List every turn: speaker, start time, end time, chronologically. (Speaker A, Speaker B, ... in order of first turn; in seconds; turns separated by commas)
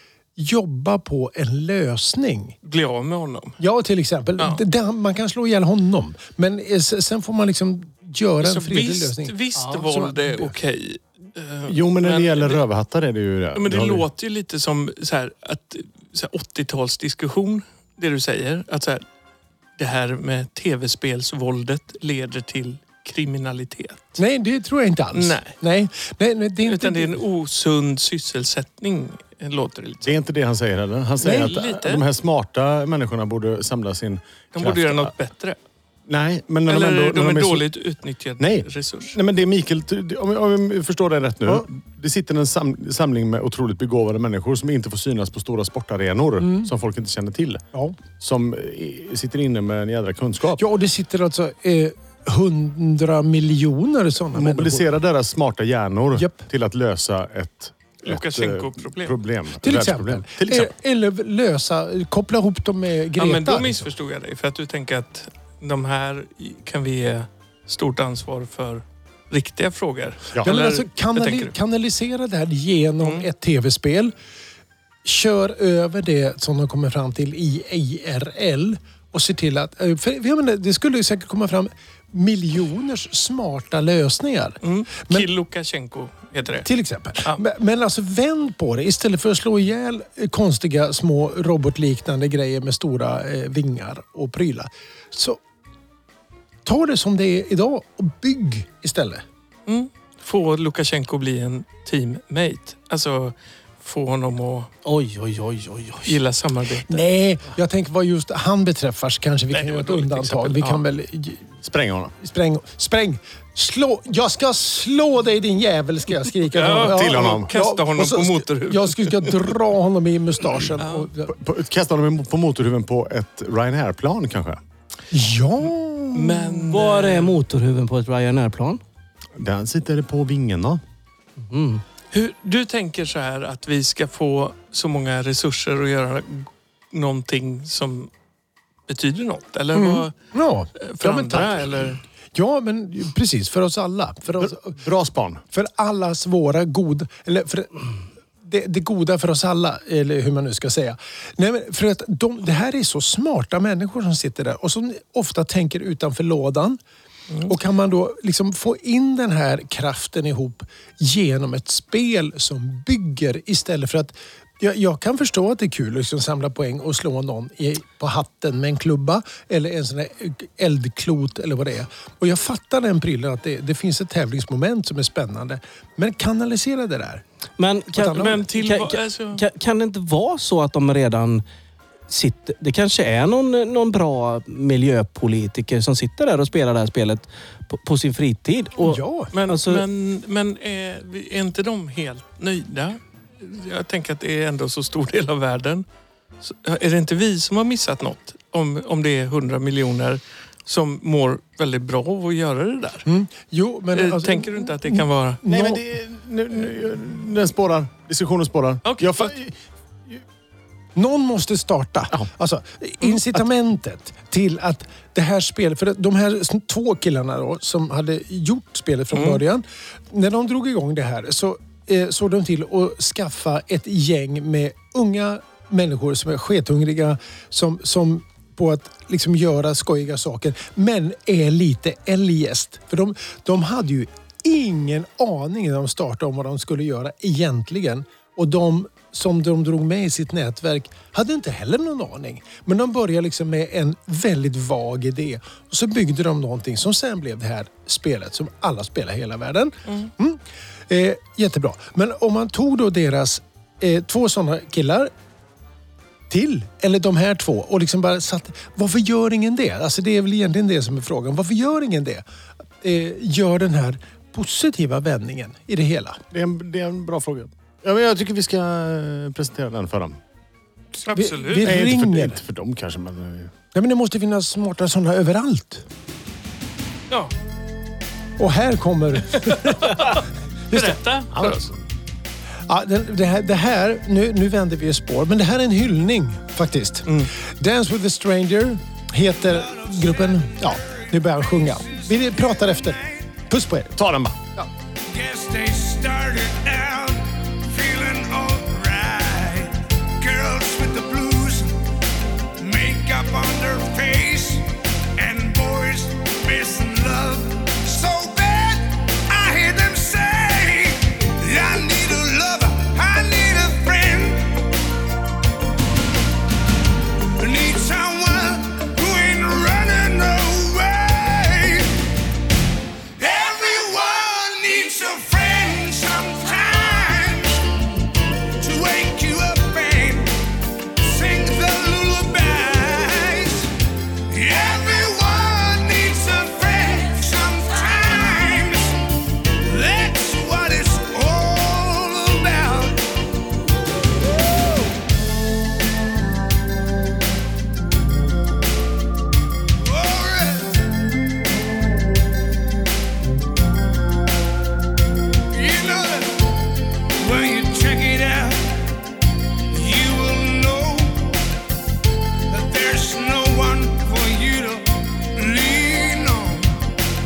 Speaker A: 0.4-2.5, Speaker B: 2.6-3.6, Speaker A: 3.6-10.5, Speaker B: 8.4-12.6, Speaker C: 11.7-14.1, Speaker B: 13.6-19.0, Speaker B: 19.8-24.2, Speaker A: 24.2-27.2, Speaker B: 25.1-25.5, Speaker B: 26.6-30.1, Speaker C: 30.0-35.1, Speaker A: 31.2-31.5, Speaker B: 31.3-32.0, Speaker B: 34.5-35.6, Speaker C: 36.1-37.7, Speaker B: 36.7-39.2, Speaker C: 38.4-47.6, Speaker A: 46.4-46.7, Speaker C: 48.2-50.6, Speaker A: 50.6-54.8, Speaker C: 54.3-60.7, Speaker B: 58.0-59.1, Speaker A: 59.6-63.9, Speaker B: 63.2-71.5, Speaker A: 70.4-74.1, Speaker A: 75.0-85.3, Speaker B: 84.6-86.7, Speaker A: 86.6-95.4, Speaker A: 96.6-99.2, Speaker B: 99.7-104.7, Speaker D: 104.8-106.2, Speaker B: 106.0-107.0, Speaker A: 106.9-111.5, Speaker B: 109.5-110.8, Speaker C: 111.6-112.1, Speaker A: 112.2-121.3, Speaker B: 116.5-119.5, Speaker C: 116.7-117.5, Speaker B: 120.8-121.1, Speaker C: 121.3-124.6, Speaker A: 125.1-126.7, Speaker B: 126.1-127.3, Speaker D: 126.6-128.8, Speaker C: 129.4-130.8, Speaker D: 131.4-131.8, Speaker B: 132.1-138.1, Speaker B: 138.9-140.1, Speaker A: 139.7-144.8, Speaker B: 140.8-142.0, Speaker C: 144.4-145.4, Speaker A: 145.5-147.9, Speaker A: 148.4-156.8, Speaker A: 157.4-177.2, Speaker D: 177.6-181.4, Speaker A: 177.9-178.4, Speaker B: 178.1-179.4, Speaker D: 182.1-189.8, Speaker A: 188.8-189.3, Speaker B: 189.3-195.8, Speaker B: 196.4-203.1, Speaker A: 203.1-205.8, Speaker B: 203.9-205.4, Speaker C: 205.4-209.5, Speaker B: 208.8-209.3, Speaker A: 210.9-255.1, Speaker B: 219.1-219.4, Speaker A: 256.3-262.2, Speaker A: 262.8-266.2, Speaker C: 266.3-270.2, Speaker B: 271.0-271.8, Speaker A: 271.1-272.4, Speaker C: 271.6-273.5, Speaker A: 273.7-275.8, Speaker A: 278.4-281.0, Speaker B: 279.4-281.7, Speaker C: 281.3-281.8, Speaker A: 282.7-293.9, Speaker E: 289.6-290.1, Speaker E: 291.9-292.9, Speaker C: 293.9-294.4, Speaker E: 295.1-301.8, Speaker E: 302.6-314.7, Speaker E: 317.4-322.0, Speaker E: 323.2-327.8, Speaker E: 328.6-333.7, Speaker E: 334.3-343.1, Speaker E: 344.1-345.1, Speaker E: 349.8-351.0, Speaker E: 355.5-356.5, Speaker E: 357.2-358.7, Speaker E: 359.7-361.4, Speaker E: 362.5-366.9